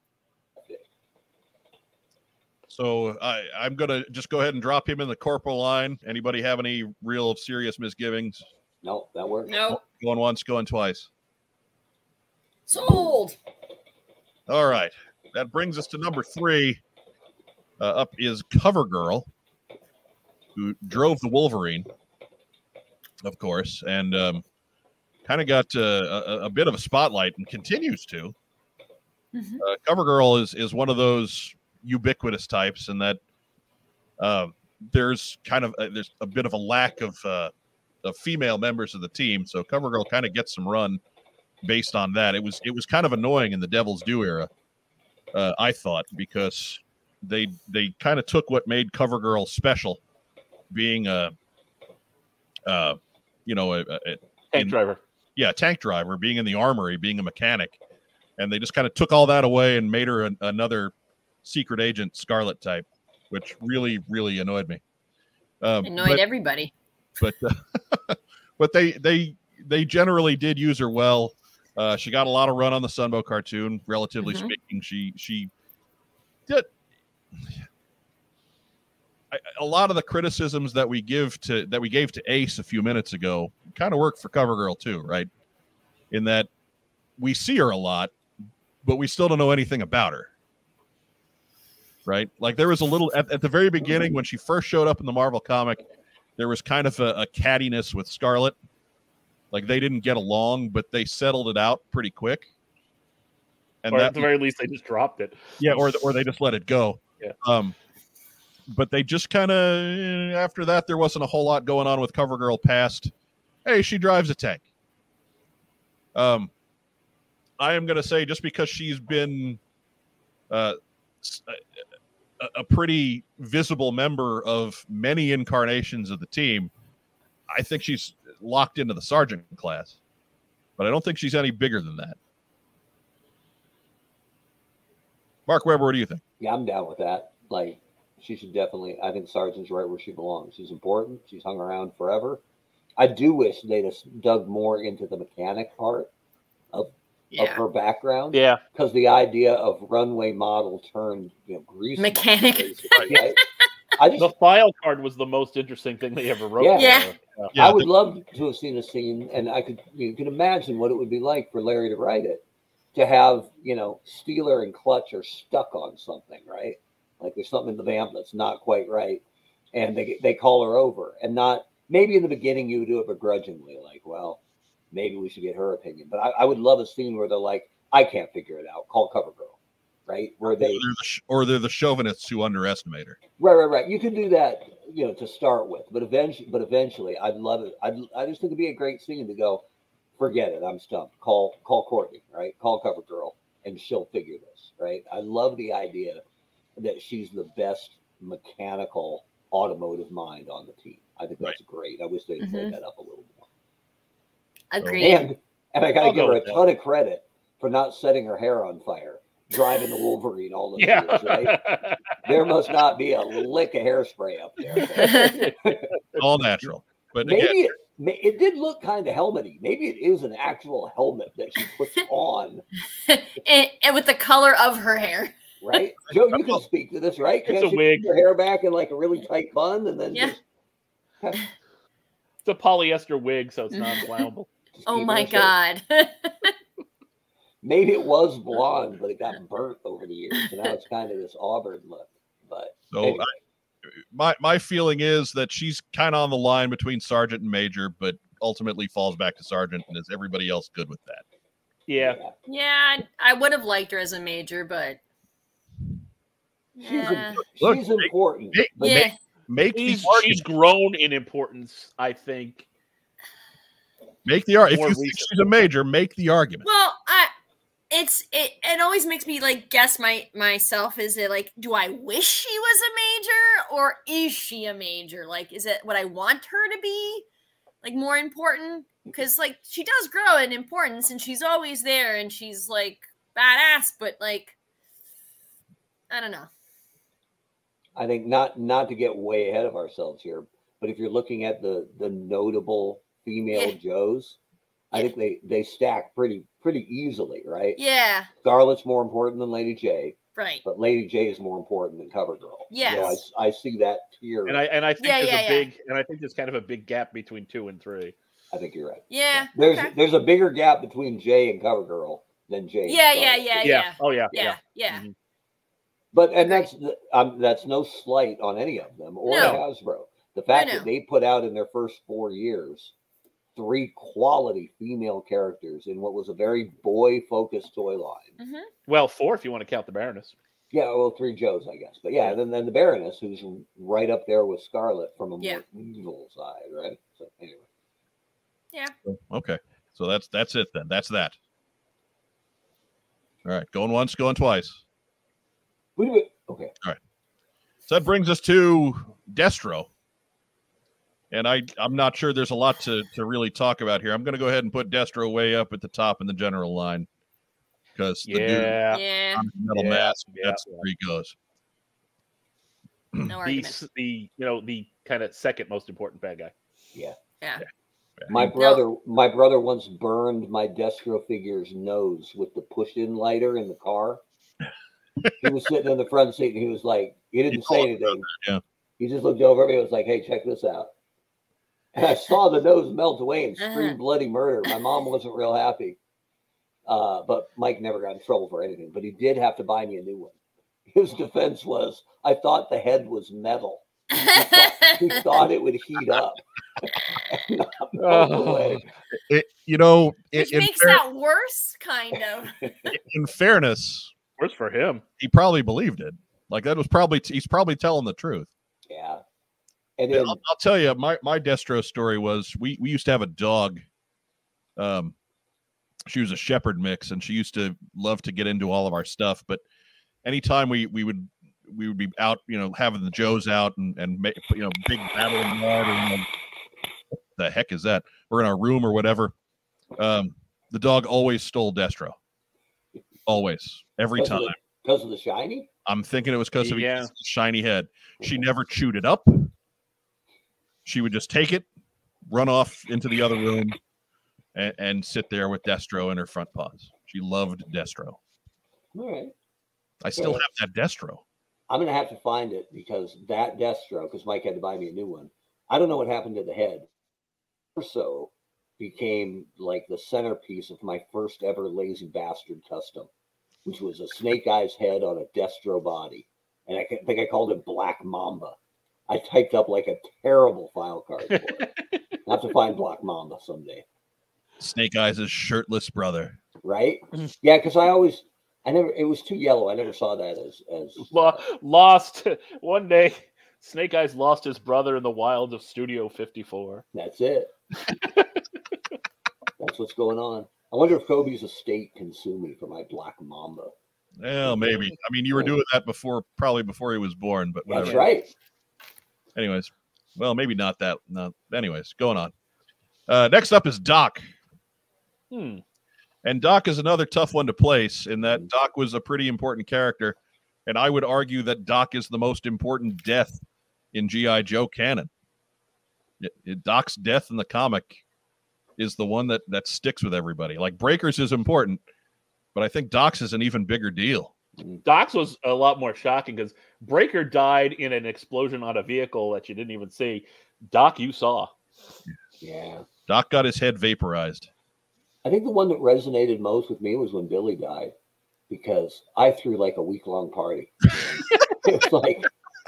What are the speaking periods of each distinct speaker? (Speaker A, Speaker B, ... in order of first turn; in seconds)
Speaker A: 2.7-8.4, 9.7-11.1, 14.5-16.8, 17.8-19.3, 20.5-21.9, 23.2-24.4, 25.2-28.3, 29.6-33.2, 34.2-37.5, 38.0-41.0, 41.6-44.5, 45.3-50.0, 50.7-51.3, 52.6-54.8, 55.4-57.8, 58.4-64.8, 65.6-66.2, 67.2-75.5, 79.3-85.3, 86.1-86.5, 87.2-88.1, 88.8-90.3, 92.0-95.8, 96.4-98.5, 99.5-102.5, 103.8-104.3, 105.6-107.8, 108.7-113.1, 113.6-114.6, 116.1-116.5, 117.6-119.6, 120.5-121.6, 122.4-126.7, 127.5-129.9, 130.8-132.2, 135.5-136.2, 157.5-157.9, 180.5-183.2, 216.2-217.6, 226.3-226.6, 242.9-243.3, 244.1-251.2, 257.6-260.4, 264.2-266.6, 339.1-341.4, 343.4-344.8, 347.9-349.9, 351.3-357.1, 357.9-358.8, 359.3-361.3, 368.2-368.5, 377.5-378.6, 399.1-401.0, 402.9-404.1, 405.2-408.5, 410.1-413.8, 414.8-415.1, 416.1-419.6, 420.2-426.2, 427.4-429.3, 430.0-432.1, 433.2-434.5, 435.9-439.5, 440.9-441.6, 442.3-443.8, 444.5-448.2, 450.0-451.2, 474.6-476.4, 494.2-498.0, 499.4-502.3, 503.1-504.2, 506.2-513.4, 513.9-515.1, 516.2-518.0, 518.8-521.8, 522.5-524.3, 533.1-534.5
Speaker B: 8.8-9.6, 136.4-142.4, 143.0-146.1, 146.7-153.4, 153.9-154.3, 156.6-162.4, 162.9-169.2, 169.7-174.4, 174.9-179.6, 180.1-180.8, 183.4-189.6, 190.2-196.2, 196.8-203.4, 205.0-211.6, 212.2-215.9, 217.2-222.6, 225.6-230.4, 234.8-235.5, 237.6-243.2, 252.0-252.3, 256.8-259.1, 287.9-294.4, 294.9-297.8, 298.4-304.6, 308.5-313.8, 316.1-322.9, 323.5-328.3, 330.7-337.6, 346.0-346.7, 368.3-374.2, 375.4-378.2, 379.0-380.9, 381.9-386.0, 386.9-390.3, 390.9-398.8, 402.6-402.9, 408.9-409.2, 410.0-410.4, 434.1-435.7, 448.9-449.3, 450.1-450.4, 451.7-456.9, 457.7-463.1, 463.6-468.6, 469.1-471.7, 472.2-473.8, 476.6-481.4, 486.9-487.5, 489.6-493.7, 497.7-498.3, 524.6-524.8, 532.4-532.8, 535.2-537.9, 538.5-542.3
Speaker C: 9.5-9.8, 12.7-13.3, 29.3-29.6, 65.8-66.7, 74.2-74.5, 147.3-147.6, 152.0-153.3, 156.8-157.1, 202.4-202.7, 204.7-205.2, 215.0-215.4, 223.1-225.3, 233.7-234.2, 234.9-236.5, 252.5-255.0, 256.8-257.4, 258.8-259.1, 266.6-267.3, 267.9-277.2, 277.8-284.5, 286.1-286.5, 297.8-298.3, 300.4-300.6, 302.7-303.2, 305.0-305.7, 309.1-309.9, 312.9-315.0, 319.2-319.6, 320.5-320.9, 328.4-328.7, 358.9-359.4, 363.3-363.8, 368.5-368.8, 383.6-383.9, 394.1-395.2, 400.3-402.6
Speaker D: 54.5-55.0, 103.9-105.9, 148.3-148.6, 154.2-157.5, 206.0-206.6, 210.8-212.4, 214.7-216.2, 227.5-228.1, 232.4-234.5, 251.9-252.2, 259.7-262.6, 264.7-265.7, 302.8-303.1, 304.4-308.1, 313.6-314.4, 328.9-330.3, 358.2-359.0, 359.7-360.9, 363.4-366.5, 398.0-398.8, 404.4-405.0, 436.6-437.1, 471.3-472.0, 481.1-486.8, 487.9-488.3, 497.8-498.1, 505.3-505.6, 524.8-531.5